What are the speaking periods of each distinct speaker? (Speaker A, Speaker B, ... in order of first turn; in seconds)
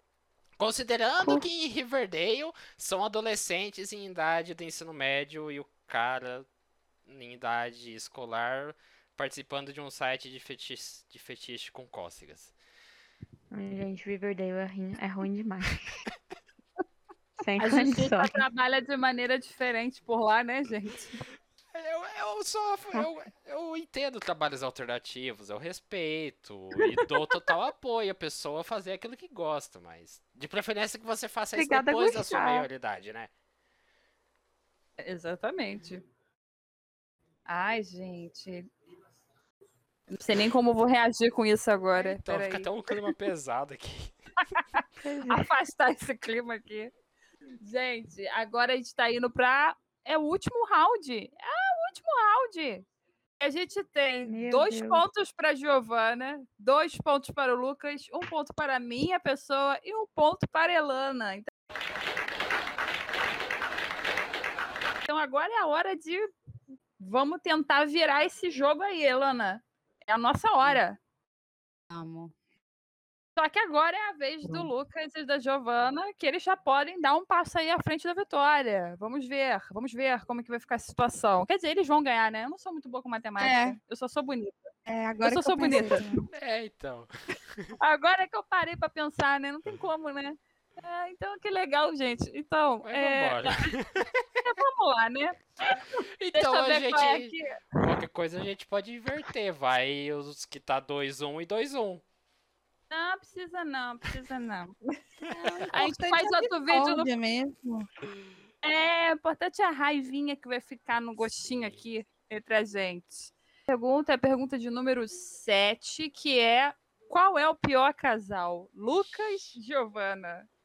Speaker A: 0.6-6.5, 7.0-12.5, 21.7-33.3, 42.0-44.1, 86.3-87.7, 92.8-94.1, 96.2-102.0
Speaker B: 1.2-1.5, 13.5-16.0, 17.4-18.4, 31.5-32.7, 45.0-45.5, 54.2-55.0
Speaker C: 17.6-21.2, 35.0-36.0, 37.5-38.6, 40.1-42.7, 44.5-46.9, 47.6-52.8, 53.4-61.5, 65.0-66.3, 67.0-71.0, 73.3-84.6, 85.2-86.0, 87.8-93.7, 94.4-95.8, 96.3-97.6, 102.9-104.8, 105.7-107.1, 108.6-120.5
Speaker D: 71.9-72.3, 74.4-74.7, 83.4-83.8, 84.9-86.3, 105.3-107.9